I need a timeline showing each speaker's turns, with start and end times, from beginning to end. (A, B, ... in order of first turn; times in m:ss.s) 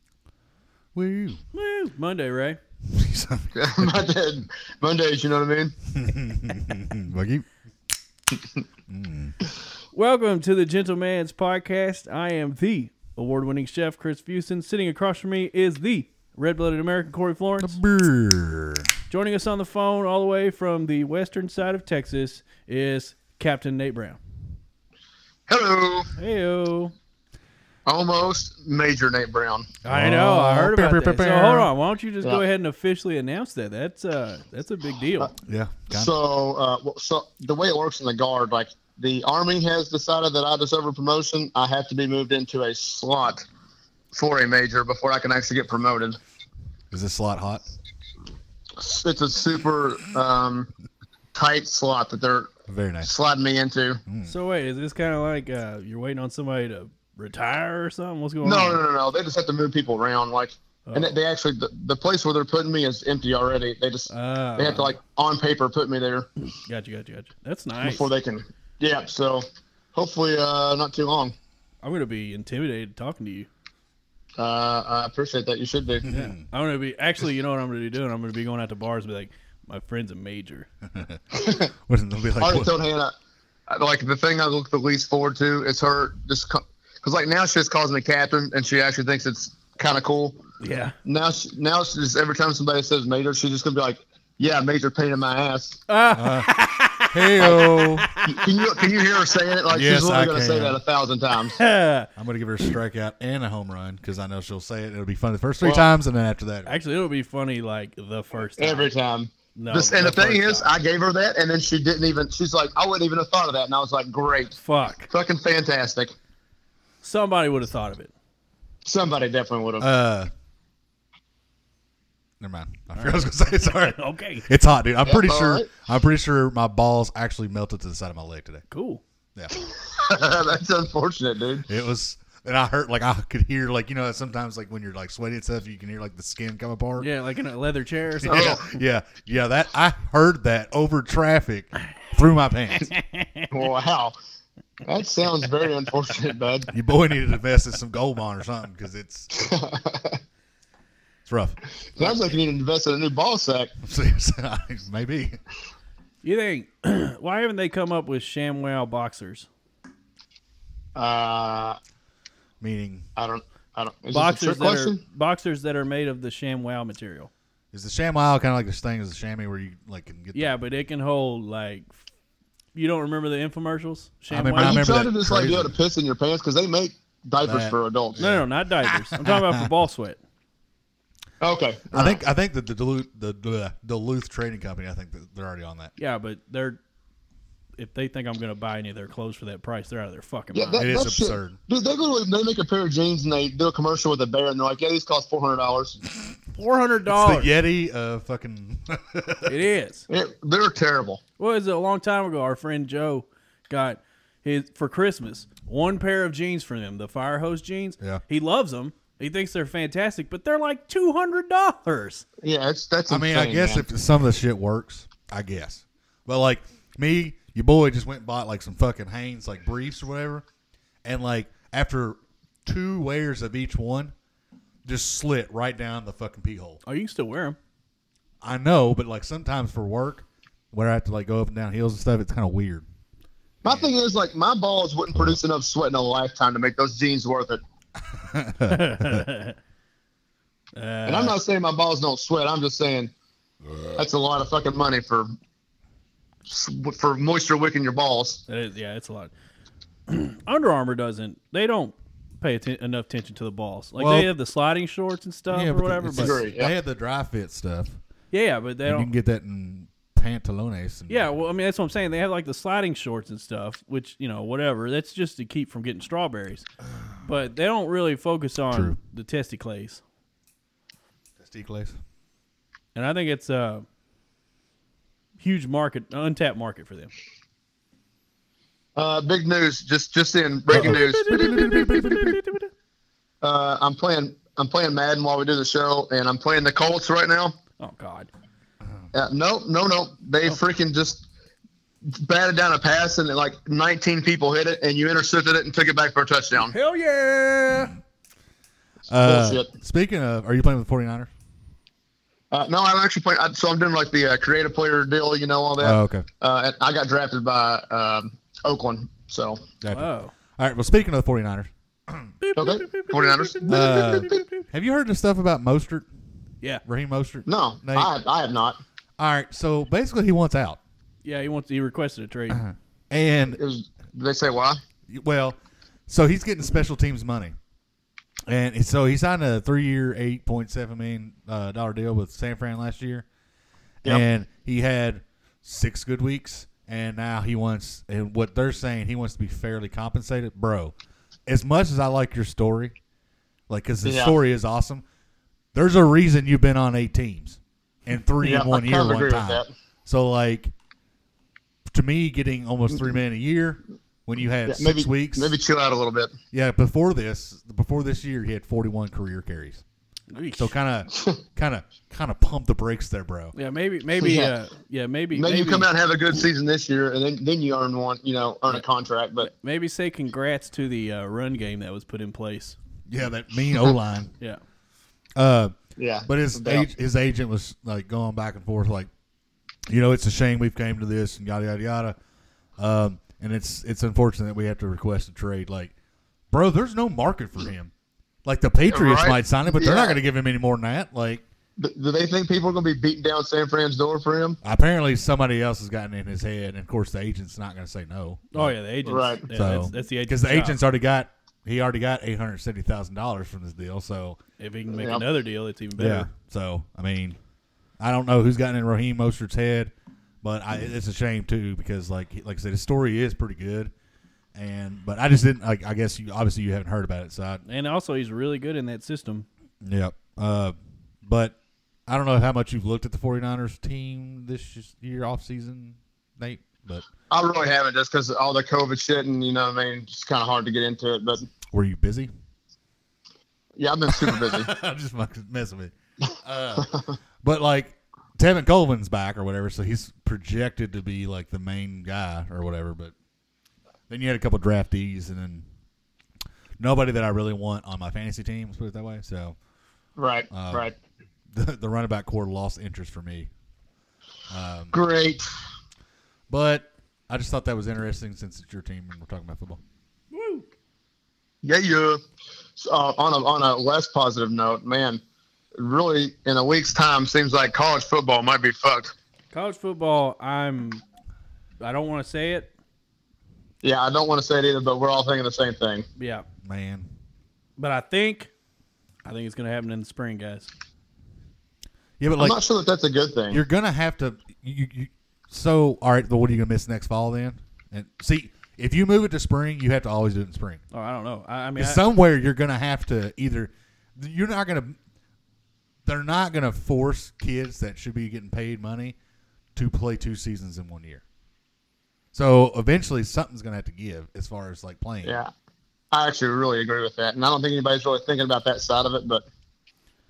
0:00.9-0:01.4 A
0:01.5-0:02.6 B
0:02.9-0:03.9 A
0:03.5-0:05.8 C
0:05.9-0:07.4 A
0:08.9-0:09.3 A
0:09.9-0:17.8 B
0:17.6-0:18.9 A
0:19.1-0:24.2 B
0:25.5-0:26.1 C
0:26.2-0:26.9 B
0:27.8-0:29.7 C
0:29.8-0:35.3 B
0:29.9-0:31.7 A
0:35.4-0:36.1 A
0:35.9-0:43.4 C
0:44.1-0:46.2 C
0:46.9-0:47.6 A
0:48.8-0:50.7 C
0:51.3-0:52.5 C
0:52.7-0:53.1 A
0:53.0-0:54.0 C
0:54.1-0:54.3 A
0:54.2-0:58.8 B
0:58.4-1:06.3 C
1:00.8-1:01.2 B
1:04.1-1:04.9 B
1:06.5-1:08.0 B
1:07.8-1:11.3 C
1:11.8-1:13.5 B
1:14.4-1:16.3 C
1:16.0-1:16.4 A
1:16.4-1:20.7 B
1:20.9-1:22.7 A
1:21.3-1:21.7 C
1:22.4-1:23.1 C
1:23.7-1:30.4 C
1:30.6-1:30.9 B
1:31.0-1:35.8 C
1:35.9-1:38.3 B
1:36.1-1:36.5 A
1:37.1-1:38.1 A
1:38.2-1:41.6 C
1:39.7-1:40.8 A
1:41.5-1:42.1 B
1:42.2-1:46.7 A
1:45.6-1:45.9 C
1:46.6-1:48.9 B
1:48.6-1:54.6 C
1:49.5-1:50.7 B
1:54.5-1:55.1 B
1:55.1-1:56.1 C
1:57.0-1:58.1 B
1:58.8-1:59.9 C
1:59.8-2:00.3 A
2:02.4-2:08.6 A
2:03.0-2:04.5 B
2:05.0-2:05.7 C
2:08.7-2:09.0 B
2:09.8-2:11.7 C
2:11.6-2:17.1 A
2:17.0-2:18.8 B
2:18.2-2:22.9 A
2:18.2-2:18.6 C
2:22.8-2:23.5 B
2:23.5-2:24.1 C
2:24.8-2:26.7 C
2:26.7-2:29.3 A
2:29.3-2:30.2 C
2:31.2-2:31.6 A
2:32.0-2:33.7 C
2:33.8-2:35.4 A
2:36.2-2:39.5 B
2:41.0-2:41.8 C
2:42.6-2:43.1 A
2:43.2-2:45.0 C
2:44.1-2:47.3 B
2:47.7-2:50.5 A
2:50.3-2:52.0 B
2:52.7-2:54.8 B
2:54.3-2:55.7 A
2:54.6-2:58.2 C
2:57.4-2:59.7 A
2:58.2-3:00.2 B
3:01.4-3:02.2 C
3:01.9-3:05.9 A
3:06.0-3:06.8 B
3:07.8-3:10.8 B
3:10.5-3:16.0 C
3:10.8-3:11.6 A
3:16.5-3:17.5 B
3:17.1-3:19.5 A
3:19.4-3:20.1 B
3:20.1-3:21.2 C
3:21.4-3:32.2 B
3:32.4-3:33.8 C
3:33.1-3:40.4 A
3:41.0-3:44.1 A
3:44.8-3:46.8 A
3:46.8-3:47.6 B
3:48.4-3:52.8 A
3:53.6-3:57.6 C
3:53.6-3:53.9 A
3:55.1-3:55.4 A
3:58.1-3:59.3 A
3:58.7-3:59.6 B
4:00.8-4:01.4 B
4:01.0-4:03.1 C
4:03.9-4:05.3 C
4:06.5-4:08.4 C
4:08.5-4:09.3 B
4:10.1-4:16.4 B
4:14.0-4:14.3 A
4:15.5-4:18.0 A
4:16.2-4:16.7 C
4:18.3-4:19.1 B
4:18.8-4:21.3 A
4:21.1-4:26.6 B
4:27.2-4:30.0 B
4:28.7-4:29.0 A
4:31.4-4:32.0 A
4:32.9-4:33.8 B
4:35.4-4:37.1 B
4:39.0-4:42.0 C
4:40.7-4:42.4 A
4:40.7-4:42.7 B
4:43.4-4:47.6 C
4:47.8-4:48.3 B
4:49.1-4:51.2 C
4:52.1-4:56.7 C
4:56.6-4:57.9 B
4:59.1-5:01.3 A
4:59.2-4:59.7 C
5:02.5-5:09.6 C
5:05.8-5:06.2 A
5:09.8-5:12.3 A
5:09.9-5:10.3 B
5:12.4-5:14.6 B
5:12.6-5:14.5 C
5:13.7-5:16.1 A
5:16.8-5:18.1 A
5:17.4-5:18.8 C
5:19.2-5:20.8 A
5:21.2-5:22.6 B
5:22.5-5:23.6 A
5:23.5-5:24.8 C
5:25.1-5:25.6 A
5:26.1-5:27.5 A
5:28.5-5:33.2 A
5:34.0-5:40.9 A
5:41.5-5:42.9 A
5:43.7-5:45.0 A
5:44.0-5:44.4 C
5:45.7-5:50.7 A
5:48.4-5:49.7 C
5:51.9-5:55.6 A
5:54.7-5:56.3 C
5:56.5-5:59.8 A
6:00.3-6:00.7 B
6:00.6-6:03.5 A
6:03.5-6:05.9 B
6:04.2-6:04.5 C
6:05.3-6:09.5 C
6:09.4-6:12.8 B
6:13.1-6:14.3 A
6:15.4-6:15.7 A
6:16.0-6:16.9 C
6:16.3-6:19.1 A
6:19.9-6:22.2 A
6:22.8-6:25.9 A
6:26.5-6:27.9 A
6:28.4-6:31.4 A
6:28.9-6:30.2 C
6:31.8-6:34.6 C
6:34.6-6:38.7 A
6:38.5-6:40.8 B
6:39.0-6:39.5 C
6:39.5-6:44.4 A
6:44.6-6:46.3 B
6:44.9-6:45.2 C
6:46.0-6:47.4 A
6:48.0-6:49.9 A
6:50.4-6:53.9 A
6:54.5-6:57.6 A
6:57.6-6:59.5 B
6:59.8-7:01.5 A
7:02.1-7:07.0 A
7:07.3-7:11.5 C
7:11.7-7:12.3 A
7:13.8-7:14.7 C
7:14.1-7:16.9 A
7:17.4-7:23.1 A
7:24.1-7:25.6 A
7:26.8-7:29.6 A
7:30.2-7:30.9 C
7:30.5-7:30.8 A
7:31.5-7:33.5 A
7:34.5-7:35.0 A
7:34.9-7:35.4 C
7:36.5-7:39.8 A
7:40.3-7:40.7 B
7:41.6-7:42.2 C
7:42.8-7:45.2 C
7:45.8-7:49.1 C
7:49.5-7:51.0 B
7:51.8-7:52.7 B
7:53.8-7:56.0 C
7:56.2-7:56.4 B
7:56.6-7:57.1 A
7:57.8-7:58.5 B
7:59.2-8:00.7 B
8:02.2-8:02.6 A
8:02.4-8:03.6 C
8:03.5-8:10.8 A
8:10.9-8:12.0 B
8:11.8-8:15.0 A
8:16.0-8:19.2 A
8:19.7-8:21.2 A
8:22.3-8:25.4 A
8:25.2-8:25.5 C
8:26.1-8:29.4 C